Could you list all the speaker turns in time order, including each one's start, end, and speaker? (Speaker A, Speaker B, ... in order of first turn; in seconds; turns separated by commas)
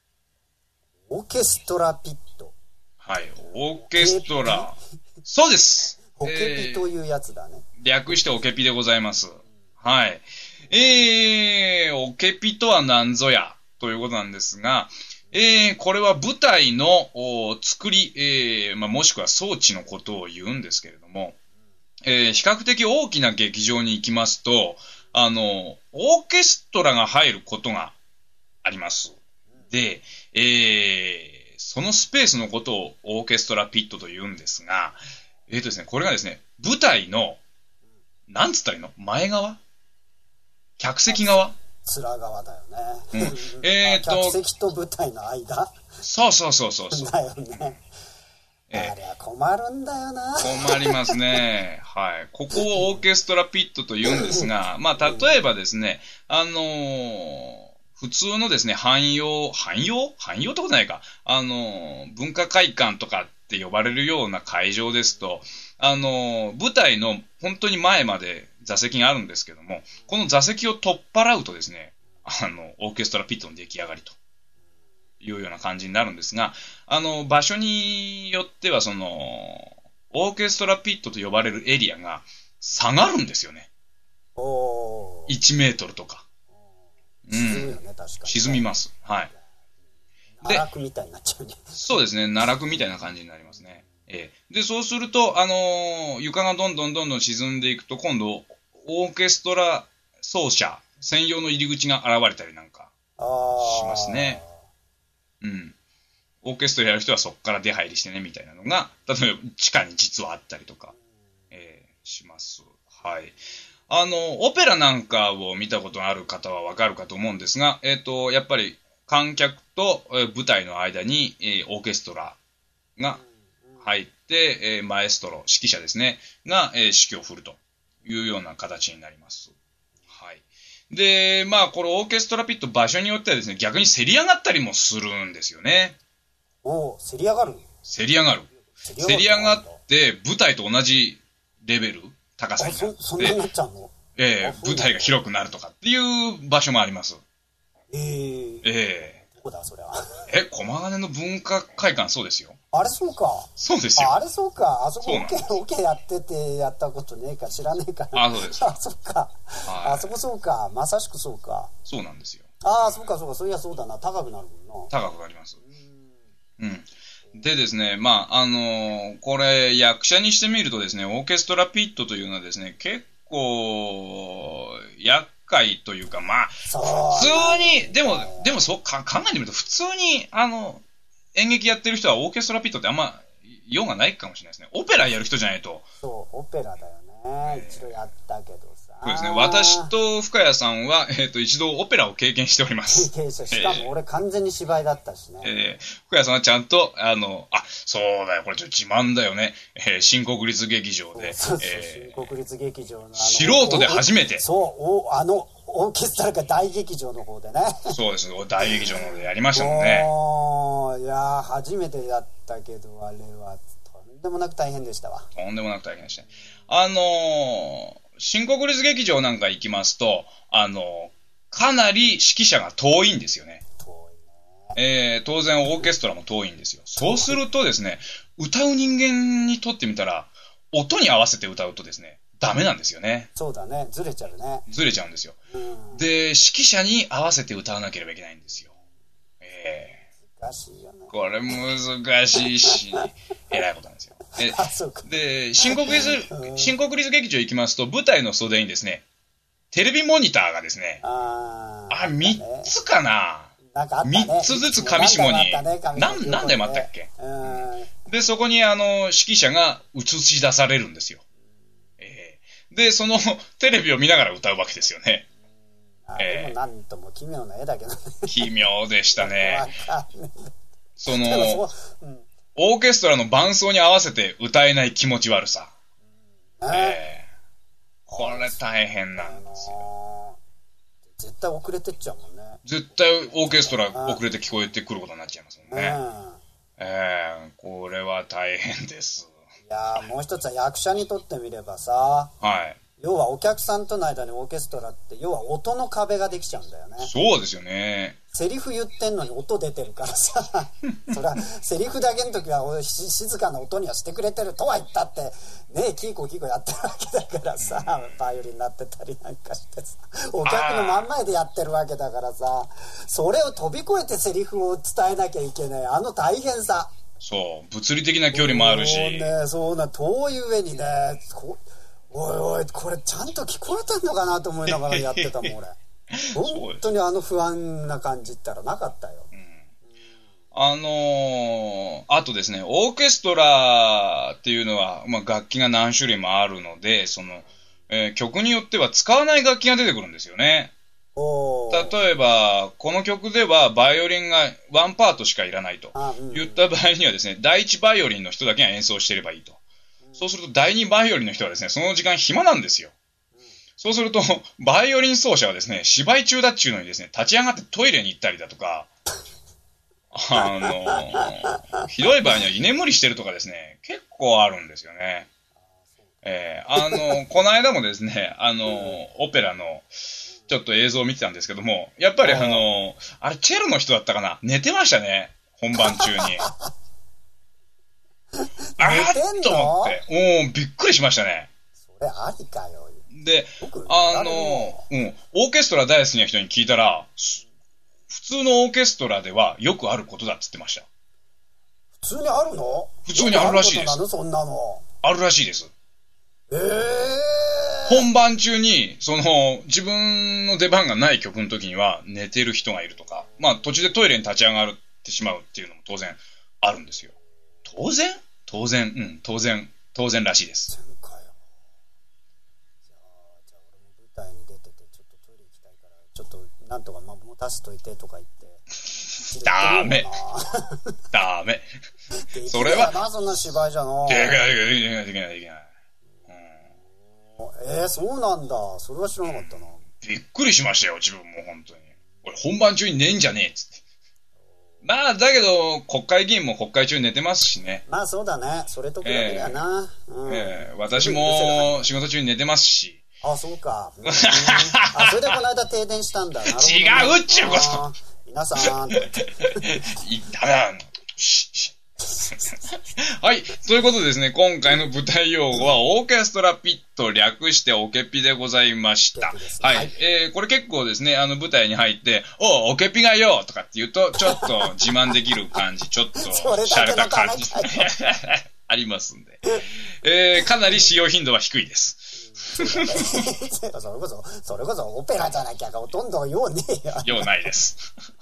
Speaker A: 1.1-2.5, Speaker B: 3.0-6.9, Speaker A: 4.0-4.7, Speaker A: 6.2-7.7, Speaker B: 7.8-21.4, Speaker B: 22.1-28.0, Speaker B: 28.6-29.2, Speaker B: 29.7-37.4, Speaker B: 38.3-39.6, Speaker B: 40.8-41.6, Speaker A: 41.1-45.8, Speaker B: 43.1-44.4, Speaker B: 46.0-47.8, Speaker A: 46.9-47.8, Speaker B: 48.7-49.0, Speaker A: 48.7-51.4, Speaker B: 50.4-74.2, Speaker A: 54.0-54.5, Speaker A: 55.0-55.3, Speaker B: 75.2-83.7, Speaker A: 84.4-85.4, Speaker B: 85.3-86.2, Speaker B: 87.3-89.3, Speaker A: 87.3-88.7, Speaker A: 90.4-91.9, Speaker B: 91.7-102.9, Speaker A: 103.2-104.5, Speaker B: 103.6-104.4, Speaker B: 105.4-105.8, Speaker B: 106.4-110.9, Speaker B: 111.5-113.4, Speaker B: 113.9-122.4, Speaker A: 123.2-123.8, Speaker B: 123.8-129.5, Speaker B: 130.1-136.0, Speaker A: 136.6-137.7, Speaker B: 137.8-143.4, Speaker A: 138.8-139.8, Speaker A: 142.6-145.2, Speaker B: 144.2-147.2, Speaker A: 147.9-148.7, Speaker B: 148.6-149.2, Speaker A: 149.3-150.3, Speaker B: 150.3-152.6, Speaker A: 152.7-161.7, Speaker B: 153.6-154.2, Speaker B: 155.0-155.5, Speaker B: 158.1-158.8, Speaker B: 159.7-160.1, Speaker B: 161.9-163.0, Speaker A: 162.6-164.9, Speaker B: 164.9-165.6, Speaker B: 166.6-180.8, Speaker A: 176.7-178.5, Speaker B: 181.3-185.9, Speaker A: 186.0-189.9, Speaker B: 187.4-188.1, Speaker B: 189.0-193.9, Speaker A: 192.9-195.5, Speaker B: 195.4-202.3, Speaker A: 201.2-207.9, Speaker B: 203.2-204.4, Speaker B: 207.9-210.1, Speaker A: 209.5-215.3, Speaker B: 215.3-223.6, Speaker A: 223.8-224.8, Speaker B: 224.8-233.3, Speaker A: 227.0-227.4, Speaker A: 233.4-234.7, Speaker B: 234.7-235.4, Speaker A: 235.5-236.0, Speaker B: 235.9-238.7, Speaker B: 239.4-240.0, Speaker A: 240.4-241.1, Speaker B: 241.1-249.0, Speaker A: 242.3-243.1, Speaker A: 244.4-245.1, Speaker A: 245.6-246.8, Speaker B: 249.7-251.0, Speaker A: 251.0-252.8, Speaker B: 251.9-261.2, Speaker A: 253.7-257.9, Speaker B: 262.0-265.3, Speaker A: 266.1-268.3, Speaker B: 266.2-266.6, Speaker B: 268.3-269.7, Speaker A: 269.2-270.5, Speaker B: 271.0-271.7, Speaker A: 271.1-272.3, Speaker B: 272.6-275.7, Speaker A: 276.6-277.0, Speaker B: 276.7-277.3, Speaker A: 278.1-278.6, Speaker B: 278.1-279.9, Speaker A: 279.1-280.4, Speaker A: 281.2-282.6, Speaker B: 282.6-286.0, Speaker A: 283.3-284.2, Speaker A: 285.7-286.4, Speaker B: 286.8-289.3, Speaker A: 289.6-292.3, Speaker B: 292.4-292.8, Speaker A: 293.0-297.1, Speaker B: 297.0-298.2, Speaker A: 298.3-316.9, Speaker B: 307.6-308.2, Speaker B: 310.4-311.1, Speaker B: 317.2-319.3, Speaker A: 318.3-325.8, Speaker B: 324.7-325.5, Speaker B: 326.1-326.8, Speaker A: 326.3-329.3, Speaker B: 329.3-329.7, Speaker B: 330.5-340.7, Speaker A: 341.2-341.9, Speaker B: 341.7-349.6, Speaker A: 345.9-346.7, Speaker B: 350.2-352.9, Speaker B: 353.8-358.9, Speaker B: 360.1-365.3, Speaker A: 360.4-361.6, Speaker B: 366.2-369.9, Speaker A: 368.7-369.0, Speaker B: 370.5-376.5, Speaker A: 372.2-372.6, Speaker A: 375.8-376.7, Speaker A: 378.8-380.0, Speaker B: 378.8-381.5, Speaker A: 381.8-383.1, Speaker B: 383.1-387.4, Speaker A: 383.6-384.8, Speaker B: 388.1-390.9, Speaker A: 392.0-394.9, Speaker B: 393.1-394.0, Speaker B: 395.0-395.7, Speaker A: 396.5-398.1, Speaker B: 397.9-407.1, Speaker B: 407.7-410.7, Speaker A: 410.7-411.3, Speaker A: 413.0-418.6, Speaker B: 419.1-420.1, Speaker A: 419.3-420.8, Speaker B: 421.1-421.7, Speaker A: 422.2-424.5, Speaker B: 422.5-423.0, Speaker B: 424.1-425.7, Speaker B: 426.3-426.6, Speaker A: 427.4-429.8, Speaker B: 429.2-433.8, Speaker B: 434.8-437.8, Speaker A: 437.9-442.0, Speaker B: 439.0-439.6, Speaker B: 440.3-443.0, Speaker A: 443.2-449.7, Speaker B: 444.1-445.4, Speaker B: 446.5-447.9, Speaker B: 448.9-451.8, Speaker A: 452.1-452.6, Speaker B: 452.3-469.4, Speaker A: 459.2-459.9, Speaker A: 464.3-465.6, Speaker A: 466.2-467.9, Speaker B: 470.0-473.2, Speaker A: 472.3-477.5, Speaker B: 477.0-477.8